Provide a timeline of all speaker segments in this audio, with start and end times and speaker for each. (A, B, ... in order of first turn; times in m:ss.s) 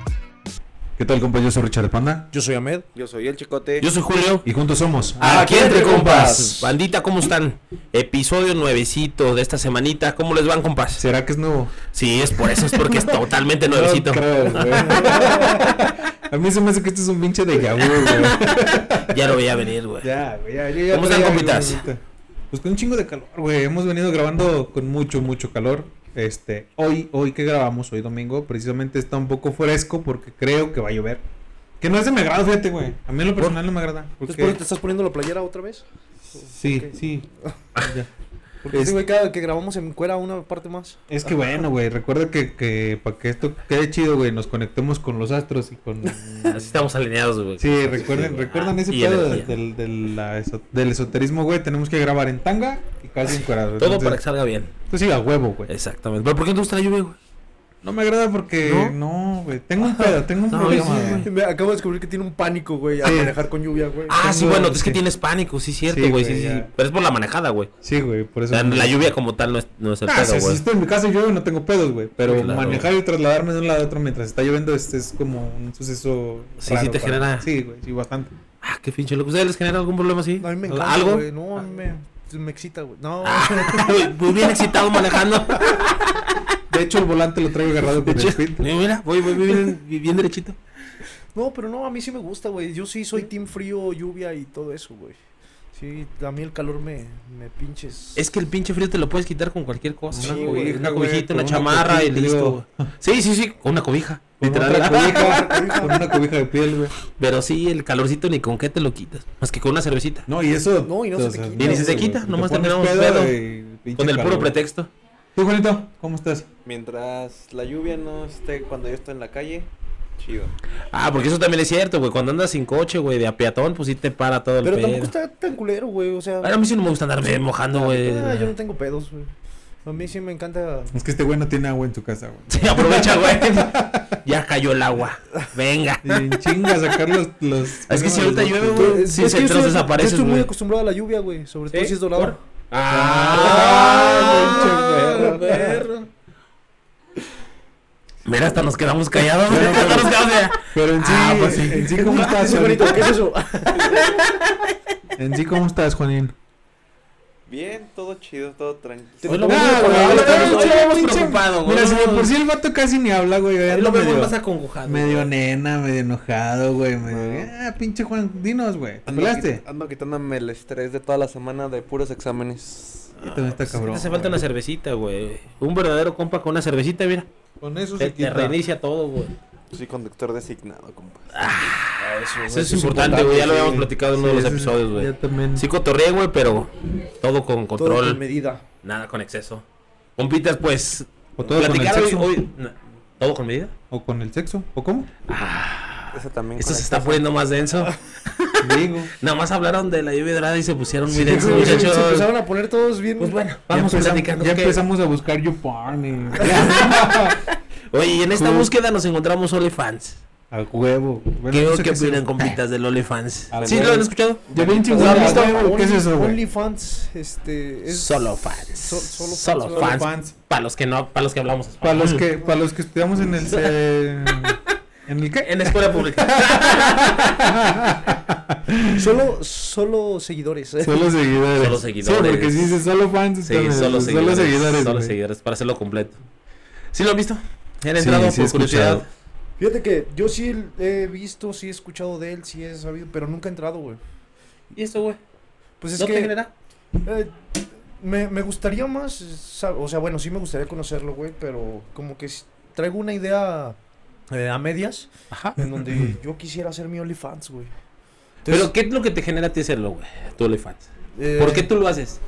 0:01.0-0:02.3 A
0:02.3-0:02.8 B
0:02.9-0:03.9 C
0:03.8-0:04.4 D
0:04.4-0:06.5 A
0:05.2-0:11.0 D
0:05.2-0:06.7 B
0:11.0-0:11.8 A
0:11.9-0:15.9 D
0:12.3-0:31.2 A
0:14.7-0:15.5 B
0:17.8-0:18.4 D
0:19.0-0:20.1 D
0:20.9-0:21.8 D
0:31.8-0:34.6 A
0:34.2-0:36.9 B
0:36.6-0:38.1 A
0:37.5-0:37.8 B
0:38.6-0:41.5 B
0:38.7-0:39.0 A
0:41.1-0:46.7 A
0:46.4-0:49.5 D
0:47.6-0:54.2 A
0:53.8-0:54.7 D
0:54.9-0:55.7 A
0:55.7-0:57.2 D
0:57.8-1:01.2 A
0:58.6-0:58.9 D
1:00.5-1:01.3 D
1:00.6-1:04.2 B
1:03.0-1:03.3 A
1:04.1-1:07.7 D
1:04.1-1:05.0 A
1:05.9-1:06.7 A
1:07.8-1:09.1 A
1:08.5-1:10.6 D
1:10.1-1:18.3 A
1:12.2-1:12.9 D
1:16.6-1:17.5 D
1:18.6-1:21.2 D
1:20.4-1:24.0 B
1:23.2-1:26.4 D
1:26.7-1:28.7 A
1:28.0-1:30.6 D
1:31.3-1:35.2 B
1:35.7-1:38.2 B
1:38.2-1:45.6 D
1:40.1-1:42.8 A
1:40.2-1:40.7 B
1:44.4-1:46.9 A
1:44.9-1:46.1 B
1:47.1-1:50.3 D
1:50.3-1:54.6 A
1:50.8-1:52.1 B
1:51.6-1:53.4 D
1:53.9-1:54.9 D
1:55.3-1:56.5 A
1:56.6-2:00.5 C
2:00.9-2:05.1 D
2:04.6-2:06.5 B
2:06.4-2:08.5 D
2:07.7-2:09.3 B
2:09.8-2:10.9 B
2:10.9-2:14.2 A
2:12.5-2:16.8 D
2:16.0-2:19.0 A
2:17.8-2:20.5 D
2:18.7-2:22.4 B
2:21.7-2:26.1 D
2:22.9-2:25.6 A
2:23.3-2:25.8 B
2:28.2-2:32.7 D
2:29.4-2:33.2 A
2:31.2-2:34.0 B
2:33.8-2:34.7 D
2:35.2-2:36.4 A
2:37.5-2:39.5 C
2:39.2-2:40.8 B
2:39.2-2:42.3 D
2:39.5-2:49.6 A
2:43.7-2:45.3 D
2:47.0-2:47.5 C
2:49.0-2:53.2 C
2:53.2-2:54.4 A
2:53.2-2:57.3 D
2:57.6-2:58.6 A
2:58.0-2:59.3 D
2:59.7-3:01.6 C
3:01.3-3:08.2 D
3:02.0-3:03.7 B
3:02.8-3:05.7 A
3:07.8-3:08.6 B
3:08.8-3:09.6 D
3:10.2-3:13.7 D
3:11.4-3:12.3 A
3:13.9-3:15.1 A
3:15.3-3:22.3 D
3:16.1-3:17.3 C
3:18.6-3:19.1 A
3:21.1-3:23.4 B
3:21.3-3:21.8 A
3:23.2-3:24.8 D
3:23.7-3:27.4 A
3:26.4-3:30.2 D
3:28.3-3:28.7 A
3:30.5-3:32.6 A
3:31.5-3:35.6 D
3:33.5-3:36.4 A
3:33.5-3:35.4 C
3:34.9-3:40.0 B
3:37.9-3:42.3 D
3:39.7-3:40.3 A
3:41.8-3:49.0 A
3:45.4-3:47.3 D
3:48.9-3:51.1 B
3:50.8-3:55.1 A
3:51.6-3:52.8 D
3:53.4-3:56.2 D
3:56.9-3:59.1 D
3:58.0-3:59.0 A
3:59.6-4:04.0 B
4:04.7-4:05.2 D
4:05.8-4:06.3 B
4:06.0-4:06.5 D
4:07.0-4:07.3 B
4:08.0-4:13.8 B
4:14.3-4:17.7 B
4:15.3-4:15.6 D
4:18.4-4:18.7 B
4:18.5-4:22.2 D
4:21.1-4:21.7 B